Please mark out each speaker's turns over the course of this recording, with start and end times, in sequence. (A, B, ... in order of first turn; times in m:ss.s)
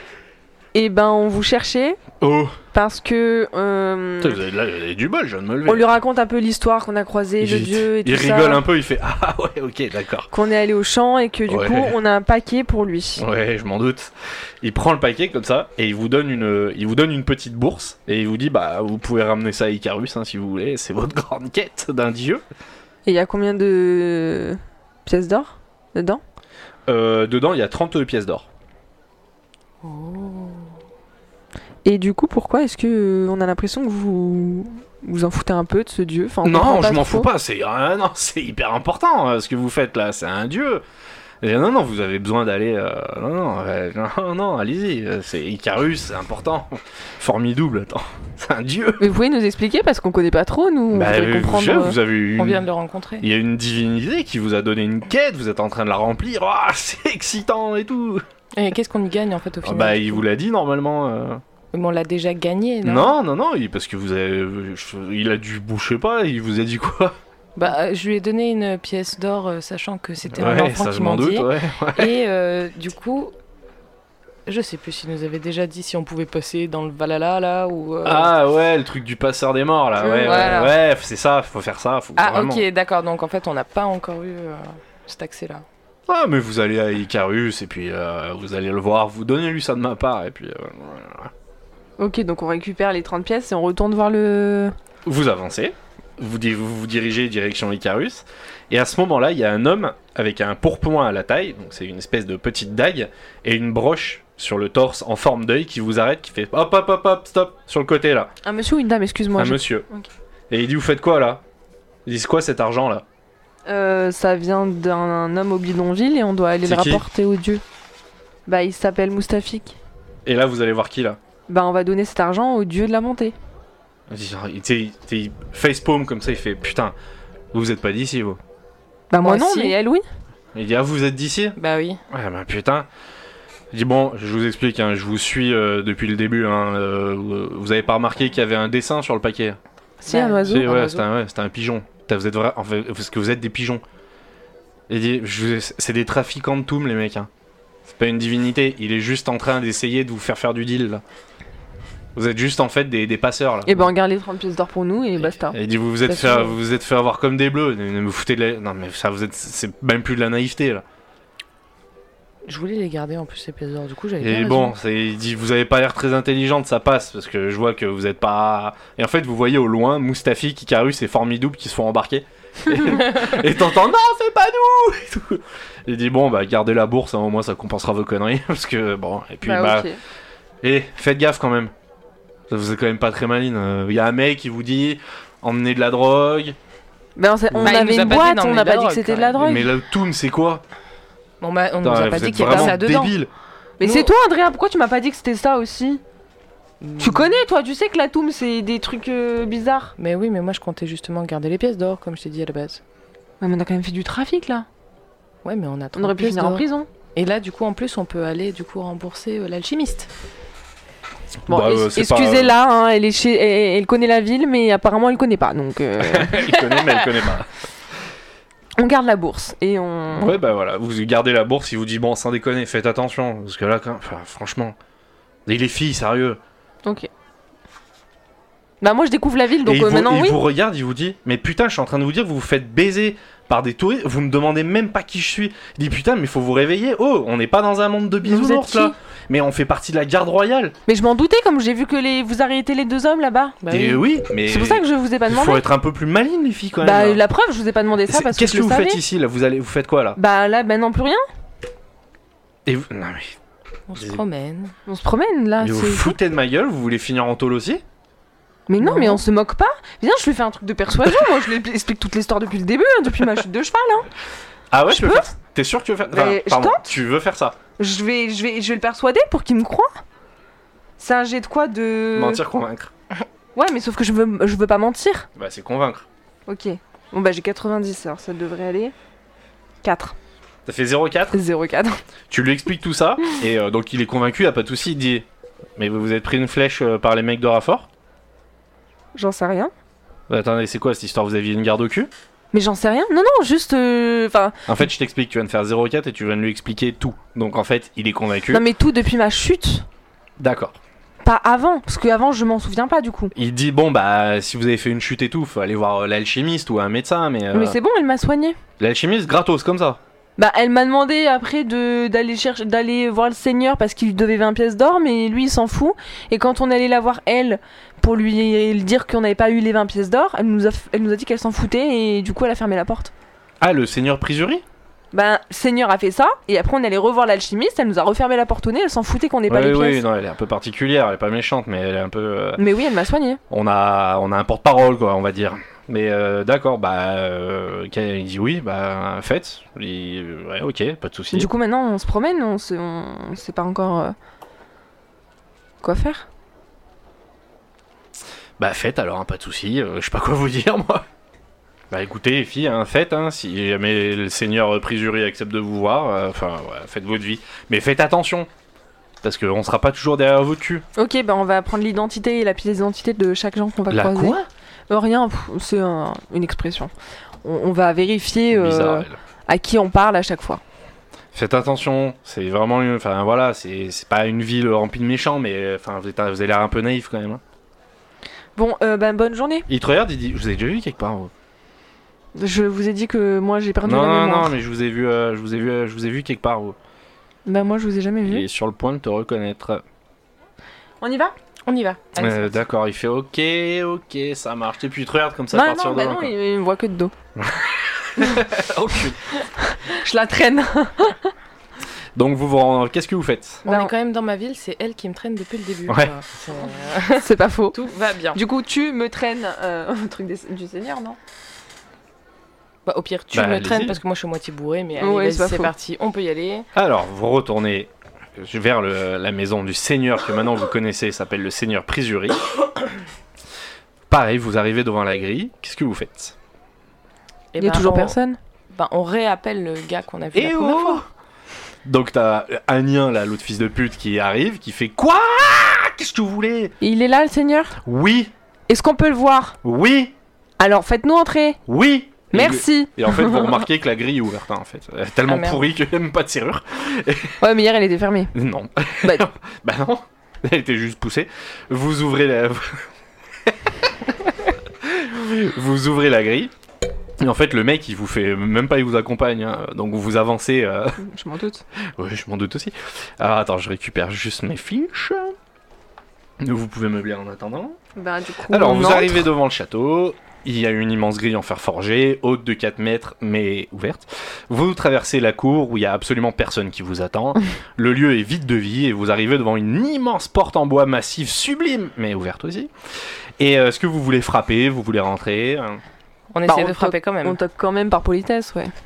0:00.7-0:02.0 A
0:02.2-0:02.6 B
0:02.7-0:04.4 A
0:04.2-0:05.9 B
0:05.6-0:08.6 A
0:07.4-0:10.3 B
0:10.3-0:13.2 A
0:11.5-0:12.0 B
0:13.2-0:22.4 B
0:23.0-0:26.2 A
0:26.9-0:28.5 B
0:29.8-0:30.7 C
0:31.8-0:37.3 A
0:36.4-0:40.8 B
0:41.4-0:49.0 B
0:49.0-0:52.0 A
0:50.9-0:52.7 B
0:52.4-0:53.2 C
0:53.2-0:58.2 B
0:58.5-1:00.2 C
0:59.6-1:01.4 B
1:01.7-1:03.2 C
1:02.8-1:07.2 B
1:07.6-1:13.3 C
1:10.3-1:12.1 B
1:14.4-1:18.3 C
1:18.0-1:22.6 B
1:20.0-1:20.7 A
1:20.2-1:20.7 C
1:22.2-1:25.6 C
1:26.1-1:31.3 B
1:32.0-1:34.7 A
1:35.0-1:48.3 B
1:48.4-1:50.1 A
1:49.4-1:49.8 B
1:50.5-1:51.4 B
1:52.0-1:53.0 B
1:53.6-1:57.6 A
1:56.6-1:57.0 B
1:58.5-1:59.8 A
2:00.2-2:01.2 B
2:01.5-2:03.3 A
2:04.1-2:06.9 B
2:07.5-2:08.4 B
2:09.1-2:10.0 A
2:09.2-2:09.7 C
2:10.5-2:11.6 B
2:11.6-2:12.0 C
2:12.1-2:12.9 B
2:13.7-2:19.6 B
2:20.0-2:20.7 A
2:20.0-2:21.0 C
2:20.5-2:23.8 B
2:24.9-2:27.3 B
2:27.9-2:31.0 B
2:32.1-2:33.9 B
2:33.7-2:35.6 A
2:35.3-2:40.8 B
2:36.1-2:36.5 C
2:42.4-2:44.8 C
2:44.2-2:59.8 B
2:59.4-3:00.0 A
3:00.6-3:01.7 B
3:02.5-3:06.6 B
3:07.2-3:09.7 A
3:07.5-3:09.6 C
3:09.4-3:10.6 B
3:11.4-3:13.2 C
3:11.8-3:13.3 B
3:12.4-3:12.8 A
3:13.8-3:16.0 A
3:13.8-3:14.1 C
3:16.8-3:17.4 C
3:17.0-3:19.9 A
3:20.0-3:22.8 C
3:23.4-3:24.6 A
3:25.4-3:26.6 C
3:26.0-3:26.9 A
3:27.1-3:30.1 C
3:31.4-3:32.6 B
3:31.5-3:36.9 A
3:36.0-3:37.5 B
3:38.8-3:40.3 A
3:40.2-3:44.8 B
3:45.4-3:46.4 B
3:46.8-3:47.1 A
3:48.8-3:50.4 A
3:49.6-4:00.8 B
3:58.2-3:58.9 A
4:00.9-4:03.6 A
4:03.6-4:04.0 C
4:03.7-4:07.2 B
4:04.4-4:05.6 A
4:06.8-4:09.0 A
4:08.1-4:10.2 B
4:10.2-4:11.2 A
4:12.6-4:13.4 B
4:13.9-4:14.8 C
4:14.0-4:14.2 B
4:14.9-4:16.2 A
4:15.6-4:17.8 B
4:18.7-4:24.1 A
4:18.8-4:19.2 C
4:24.7-4:27.6 B
4:24.9-4:25.3 A
4:26.1-4:26.9 A
4:27.8-4:29.9 A
4:31.0-4:32.4 A
4:32.1-4:32.9 B
4:33.5-4:35.3 A
4:35.4-4:36.0 B
4:36.5-4:38.9 A
4:39.8-4:40.2 A
4:40.6-4:41.4 B
4:41.3-4:42.0 A
4:42.3-4:45.2 B
4:45.8-4:47.9 B
4:49.1-4:49.7 A
4:50.3-4:52.1 B
4:52.5-4:54.7 A
4:54.7-4:58.6 B
4:58.5-4:59.9 A
5:00.4-5:00.8 B
5:01.2-5:03.3 A
5:03.3-5:07.8 B
5:07.5-5:08.6 A
5:08.8-5:10.0 B
5:10.4-5:23.1 A
5:23.6-5:24.6 B
5:25.1-5:30.0 A
5:29.5-5:32.6 B
5:32.6-5:33.4 A
5:33.5-5:41.5 B
5:41.3-5:44.1 A
5:45.8-5:46.3 A
5:48.6-5:51.0 B
5:51.9-5:58.5 B
5:59.2-6:00.8 B
6:01.0-6:04.4 A
6:03.9-6:04.4 B
6:04.9-6:06.9 A
6:07.4-6:10.6 A
6:08.5-6:09.2 B
6:11.3-6:17.4 B
6:18.6-6:19.7 A
6:19.7-6:21.3 B
6:22.4-6:24.5 A
6:23.8-6:26.8 B
6:27.4-6:28.4 A
6:28.2-6:29.8 B
6:31.0-6:31.3 A
6:31.6-6:32.6 C
6:32.2-6:36.3 B
6:35.5-6:37.1 A
6:37.4-6:39.2 B
6:39.6-6:41.3 A
6:42.2-6:43.6 B
6:43.6-6:48.4 C
6:43.6-6:43.9 A
6:45.9-6:46.1 B
6:47.2-6:47.8 A
6:48.3-6:51.2 A
6:52.8-6:56.7 C
6:53.3-6:54.0 B
6:55.0-6:55.7 A
6:56.7-7:02.5 B
7:04.1-7:06.4 B
7:07.5-7:08.2 C
7:07.6-7:08.4 A
7:08.7-7:11.0 C
7:10.3-7:11.0 B
7:11.8-7:16.7 B
7:16.8-7:17.8 A
7:17.8-7:18.3 B
7:18.7-7:19.6 A
7:19.6-7:20.1 B
7:20.6-7:21.6 A
7:21.7-7:27.4 B
7:22.3-7:23.7 A
7:25.3-7:25.6 C
7:27.4-7:28.3 A
7:28.3-7:32.9 B
7:33.4-7:36.5 B
7:37.2-7:41.0 B
7:41.0-7:41.6 A
7:41.8-7:45.3 B
7:46.4-7:47.8 B
7:48.0-7:49.3 A
7:48.5-8:02.7 B
8:03.4-8:05.8 B
8:06.3-8:07.4 C
8:06.4-8:08.7 A